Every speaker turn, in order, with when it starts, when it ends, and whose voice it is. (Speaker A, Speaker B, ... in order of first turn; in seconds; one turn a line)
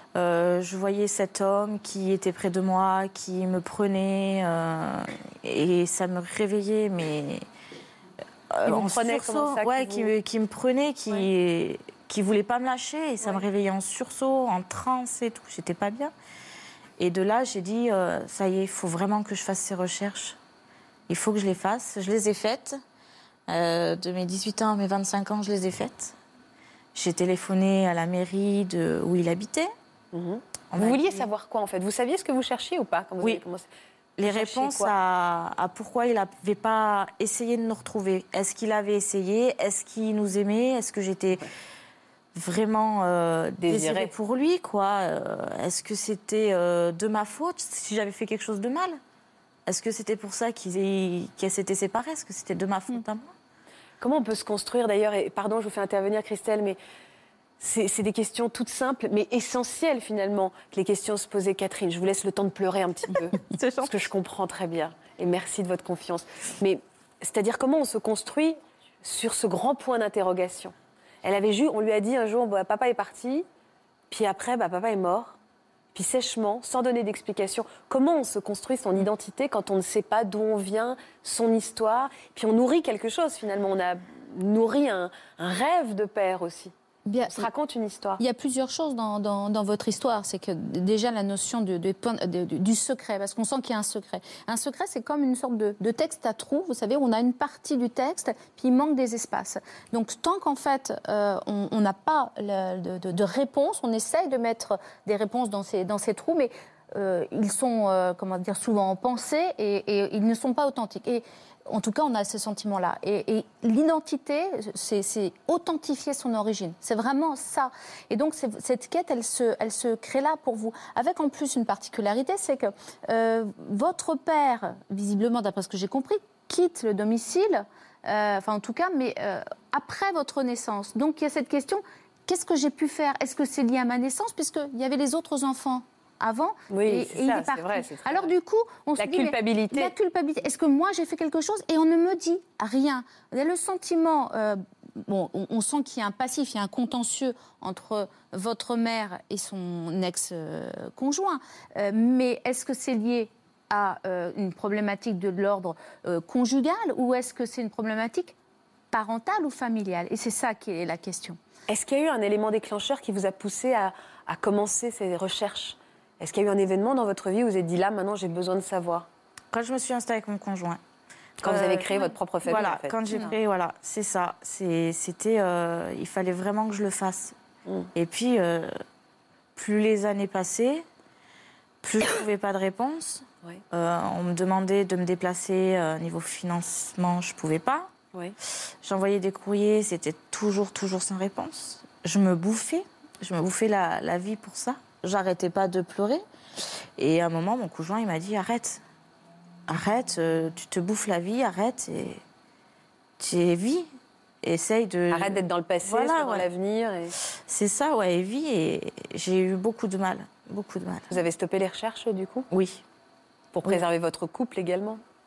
Speaker A: 0.1-7.5
Speaker A: 8.5-16.1
Speaker B: 8.7-10.1
Speaker A: 17.0-20.4
Speaker A: 21.1-22.8
Speaker A: 23.5-26.2
Speaker A: 26.9-29.7
Speaker B: 30.1-33.7
Speaker A: 30.7-31.1
Speaker A: 34.2-41.5
Speaker B: 34.2-34.9
Speaker A: 42.3-49.0
Speaker B: 43.6-44.1
Speaker A: 49.7-53.3
Speaker B: 54.0-56.8
Speaker B: 57.6-73.5
Speaker A: 63.4-64.0
Speaker B: 74.1-75.4
Speaker B: 75.9-86.7
Speaker C: 87.1-87.5
Speaker B: 87.3-88.2
Speaker C: 88.2-158.3
Speaker B: 136.7-138.3
Speaker B: 139.0-139.9
Speaker C: 158.9-161.4
Speaker B: 161.7-169.1
Speaker A: 169.5-170.8
Speaker B: 171.4-173.3
Speaker A: 171.4-177.4
Speaker B: 177.7-177.9
Speaker A: 177.9-178.7
Speaker A: 179.6-180.9
Speaker A: 181.8-187.9
Speaker A: 188.8-196.2
Speaker A: 197.0-198.8
Speaker A: 199.7-202.2
Speaker A: 203.2-203.9
Speaker A: 204.4-206.5
Speaker B: 205.1-207.2
Speaker A: 207.5-211.2
Speaker B: 211.1-212.5
Speaker A: 212.5-212.8
Speaker B: 213.5-215.0